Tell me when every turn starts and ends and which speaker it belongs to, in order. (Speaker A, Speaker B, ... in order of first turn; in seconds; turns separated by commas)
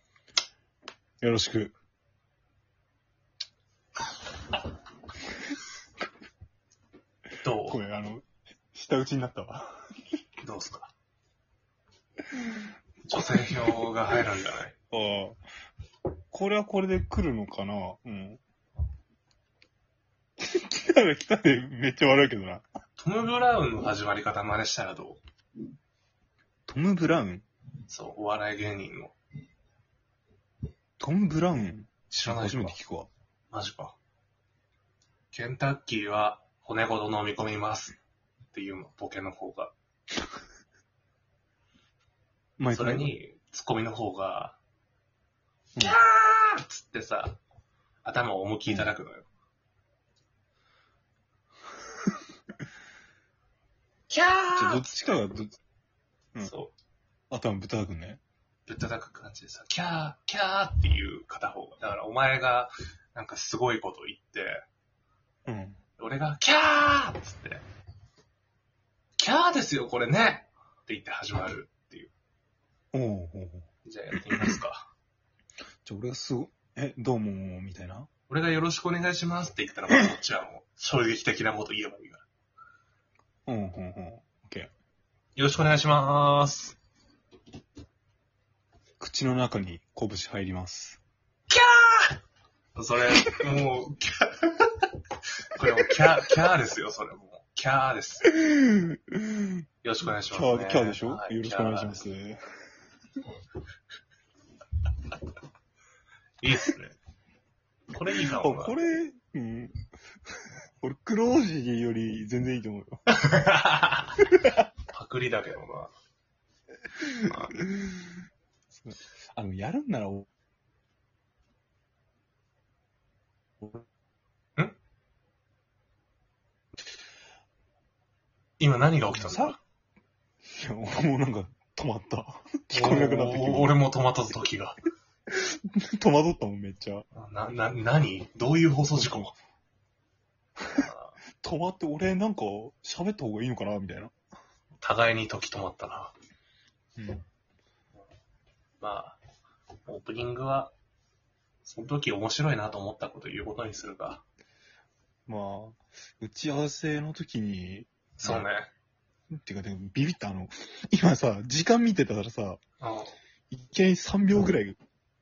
Speaker A: 1.2-1.7, Speaker B: 7.4-7.8, Speaker A: 7.7-9.8, Speaker B: 10.4-10.9, Speaker A: 12.3-12.6, Speaker B: 13.1-14.7, Speaker A: 14.9-15.4, Speaker A: 16.3-18.4, Speaker A: 20.4-22.6, Speaker B: 23.0-25.2, Speaker A: 26.7-27.4, Speaker B: 27.9-29.1, Speaker A: 31.0-33.1, Speaker B: 32.1-32.8, Speaker B: 33.5-34.0, Speaker B: 35.3-38.0, Speaker B: 38.5-39.7, Speaker A: 42.6-43.1, Speaker B: 42.7-44.6, Speaker B: 45.8-47.4, Speaker B: 48.0-49.3, Speaker A: 48.7-48.9, Speaker B: 54.1-55.1, Speaker A: 54.5-55.5, Speaker B: 56.4-56.7, Speaker A: 57.3-58.2, Speaker B: 58.7-64.6, Speaker A: 65.5-65.8, Speaker B: 66.0-67.6, Speaker B: 69.2-72.1, Speaker A: 72.9-73.7, Speaker B: 73.8-74.9, Speaker A: 74.3-74.6, Speaker A: 75.8-78.1, Speaker B: 78.3-82.2, Speaker A: 83.5-84.7, Speaker B: 85.3-86.8, Speaker A: 89.0-91.0, Speaker B: 91.5-92.2, Speaker B: 92.8-94.9, Speaker B: 95.5-98.3, Speaker A: 98.3-99.6, Speaker B: 99.8-102.0, Speaker A: 100.3-102.4, Speaker B: 106.4-107.0, Speaker B: 107.9-108.8, Speaker A: 108.3-109.8, Speaker A: 110.8-113.1, Speaker B: 113.1-114.2, Speaker B: 114.9-115.9, Speaker A: 117.2-118.1, Speaker B: 117.2-117.6, Speaker A: 118.7-120.3, Speaker B: 128.6-129.6, Speaker A: 129.1-129.6, Speaker A: 130.4-133.8, Speaker B: 132.7-134.8, Speaker A: 135.3-137.1, Speaker B: 137.1-139.3, Speaker A: 139.0-139.2, Speaker A: 140.6-144.1, Speaker B: 140.7-141.2, Speaker B: 144.8-146.1, Speaker A: 147.0-147.2, Speaker B: 148.8-149.2, Speaker B: 149.8-150.7, Speaker B: 151.6-154.2, Speaker A: 155.3-158.5, Speaker B: 158.2-158.7, Speaker A: 159.3-162.6, Speaker B: 162.8-163.1, Speaker A: 163.5-164.8